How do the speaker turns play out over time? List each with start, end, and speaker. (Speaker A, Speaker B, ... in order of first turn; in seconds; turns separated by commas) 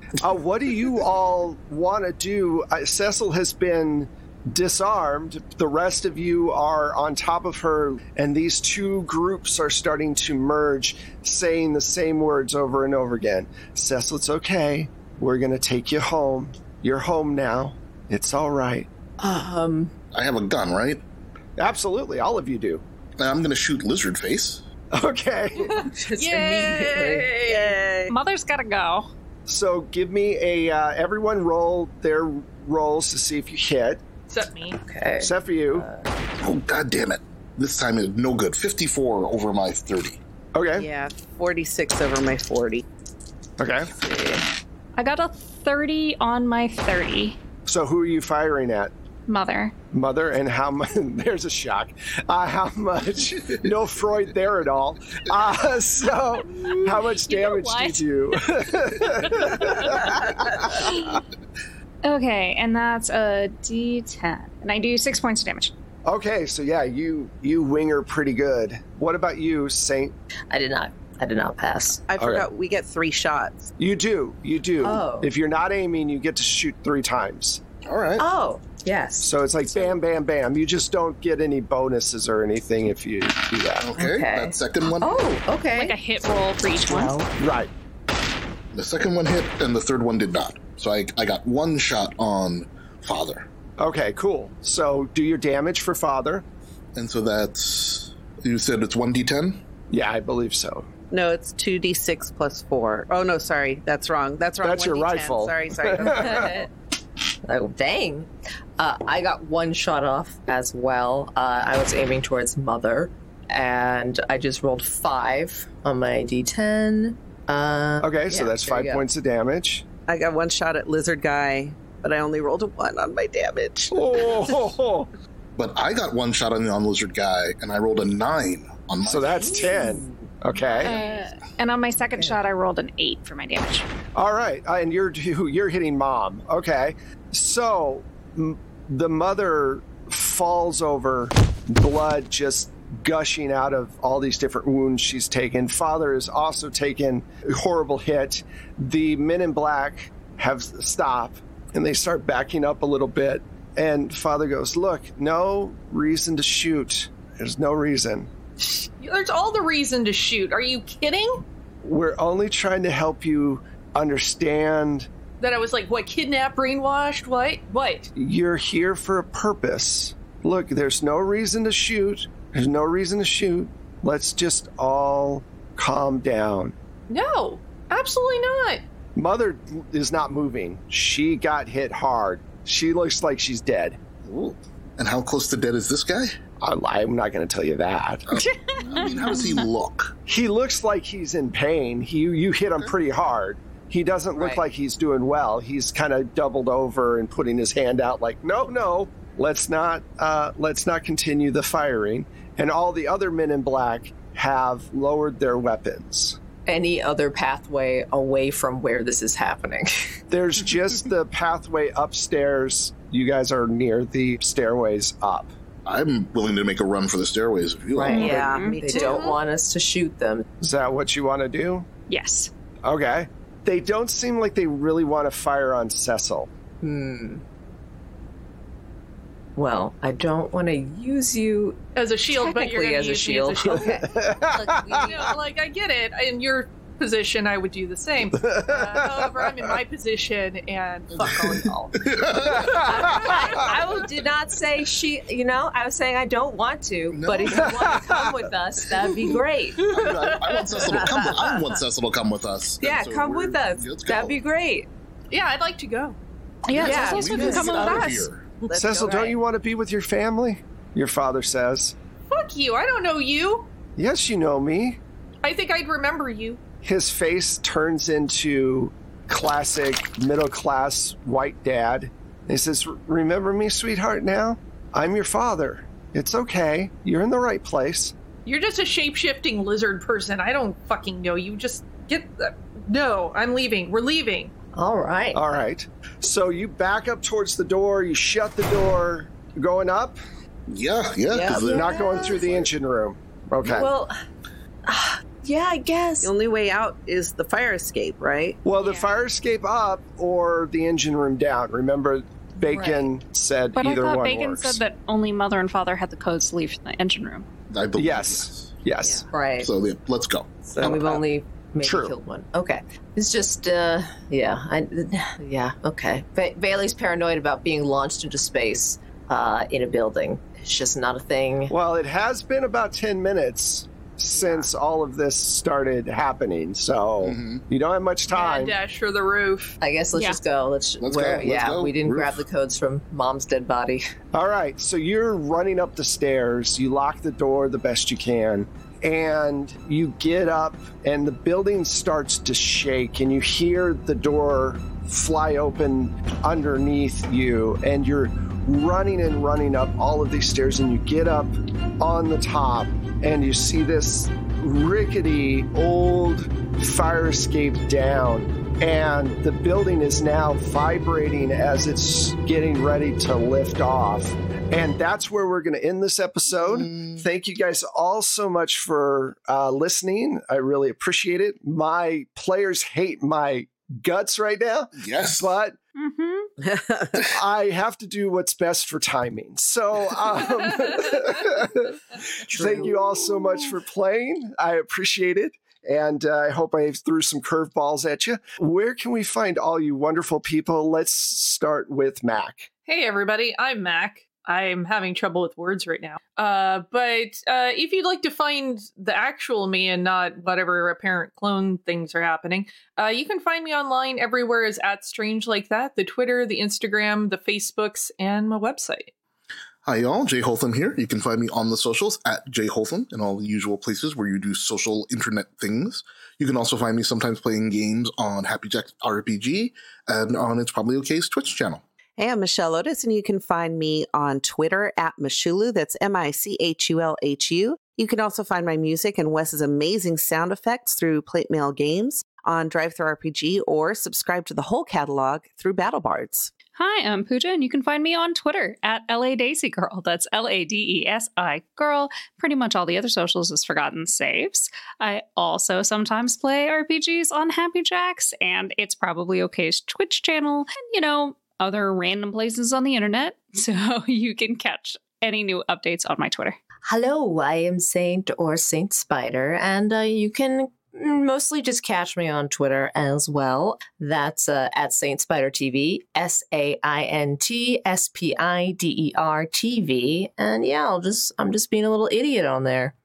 Speaker A: 0.2-18.9, Speaker B: 19.2-19.9, Speaker C: 20.1-21.0, Speaker A: 21.6-22.8, Speaker C: 23.2-24.6, Speaker A: 24.9-25.8, Speaker D: 25.6-27.8, Speaker B: 25.7-27.3, Speaker E: 27.4-28.1, Speaker F: 28.1-29.1, Speaker A: 29.5-34.0, Speaker D: 34.3-34.8, Speaker B: 34.8-36.1, Speaker A: 35.2-35.9, Speaker C: 36.4-40.2, Speaker A: 40.5-40.9, Speaker E: 40.8-42.8, Speaker A: 43.6-43.9, Speaker B: 44.0-44.4, Speaker F: 45.0-47.4, Speaker A: 47.6-48.9, Speaker F: 49.3-49.7, Speaker A: 49.9-61.1, Speaker C: 53.4-53.7, Speaker F: 56.4-61.2, Speaker F: 62.0-65.7, Speaker A: 66.0-70.1, Speaker B: 70.5-72.0, Speaker E: 72.1-73.7, Speaker A: 72.2-72.5, Speaker A: 73.8-77.6, Speaker B: 74.8-75.3, Speaker C: 77.8-78.2, Speaker B: 78.2-79.9, Speaker A: 79.2-83.9, Speaker C: 83.8-85.2, Speaker B: 84.0-87.3, Speaker F: 85.7-87.2, Speaker A: 87.4-87.7, Speaker C: 88.7-93.5, Speaker A: 93.8-96.4, Speaker C: 96.9-99.6, Speaker A: 99.9-100.9, Speaker E: 101.1-106.6, Speaker A: 104.6-106.5, Speaker B: 106.0-106.7, Speaker B: 107.4-119.0, Speaker A: 118.0-119.8, Speaker E: 120.1-124.3, Speaker A: 123.9-125.1, Speaker C: 125.5-129.9, Speaker A: 129.0-130.9, Speaker B: 129.4-131.2, Speaker F: 130.8-133.9, Speaker A: 134.1-158.3, Speaker D: 158.6-161.4, Speaker A: 161.8-165.1, Speaker D: 165.4-168.1, Speaker A: 168.2-176.7, Speaker D: 177.1-178.8, Speaker A: 179.2-184.0, Speaker C: 184.2-186.3, Speaker A: 186.6-188.3, Speaker C: 188.3-190.1, Speaker F: 188.4-189.7, Speaker A: 190.3-206.4, Speaker B: 194.3-194.6, Speaker B: 206.7-210.1, Speaker A: 210.3-215.5, Speaker C: 215.8-218.3, Speaker B: 217.9-220.4, Speaker F: 218.1-218.8, Speaker E: 218.2-219.3, Speaker D: 218.9-219.4, Speaker A: 220.6-221.9, Speaker F: 222.1-222.5, Speaker A: 222.8-226.5, Speaker B: 226.8-227.4, Speaker B: 229.6-233.9, Speaker D: 231.9-233.9, Speaker E: 233.6-234.1, Speaker A: 234.0-235.3, Speaker B: 234.4-235.3, Speaker D: 235.0-241.9, Speaker A: 238.3-239.7, Speaker C: 241.1-242.8, Speaker A: 242.5-243.7, Speaker B: 242.7-249.9, Speaker C: 247.1-248.1, Speaker A: 247.6-248.3, Speaker C: 249.3-254.4, Speaker D: 250.0-251.0, Speaker E: 250.9-251.3, Speaker B: 252.8-254.9, Speaker D: 255.3-256.2, Speaker F: 256.7-258.3, Speaker B: 256.7-258.1, Speaker C: 256.7-258.4, Speaker E: 258.6-259.4, Speaker A: 258.7-261.9, Speaker D: 262.3-263.7, Speaker A: 264.0-265.0, Speaker D: 265.4-266.6, Speaker A: 266.8-278.1, Speaker D: 278.4-284.5, Speaker B: 284.7-285.4, Speaker A: 285.3-290.2, Speaker C: 290.7-292.7, Speaker E: 291.3-291.7, Speaker B: 291.5-292.4, Speaker A: 291.5-293.9, Speaker B: 293.6-294.1, Speaker B: 294.9-296.3, Speaker E: 296.2-298.6, Speaker A: 298.6-304.8, Speaker F: 298.8-299.1, Speaker B: 302.6-303.1, Speaker F: 303.8-307.5, Speaker C: 307.7-308.7, Speaker A: 307.9-309.3, Speaker B: 309.3-309.7, Speaker C: 309.6-311.1, Speaker E: 310.7-311.0, Speaker B: 310.8-321.7, Speaker A: 311.8-312.1, Speaker A: 321.7-328.7, Speaker B: 324.4-324.7, Speaker C: 327.2-327.6, Speaker D: 328.3-329.8, Speaker B: 329.8-334.0, Speaker F: 330.1-330.4, Speaker C: 331.0-332.4, Speaker A: 334.3-375.8, Speaker C: 366.5-367.2, Speaker C: 374.9-375.6, Speaker F: 375.9-376.5, Speaker E: 376.6-377.2, Speaker A: 377.2-392.7, Speaker B: 382.5-383.1, Speaker D: 392.9-409.1, Speaker C: 409.8-421.8, Speaker E: 422.2-436.5, Speaker F: 436.7-456.6, Speaker B: 456.9-472.9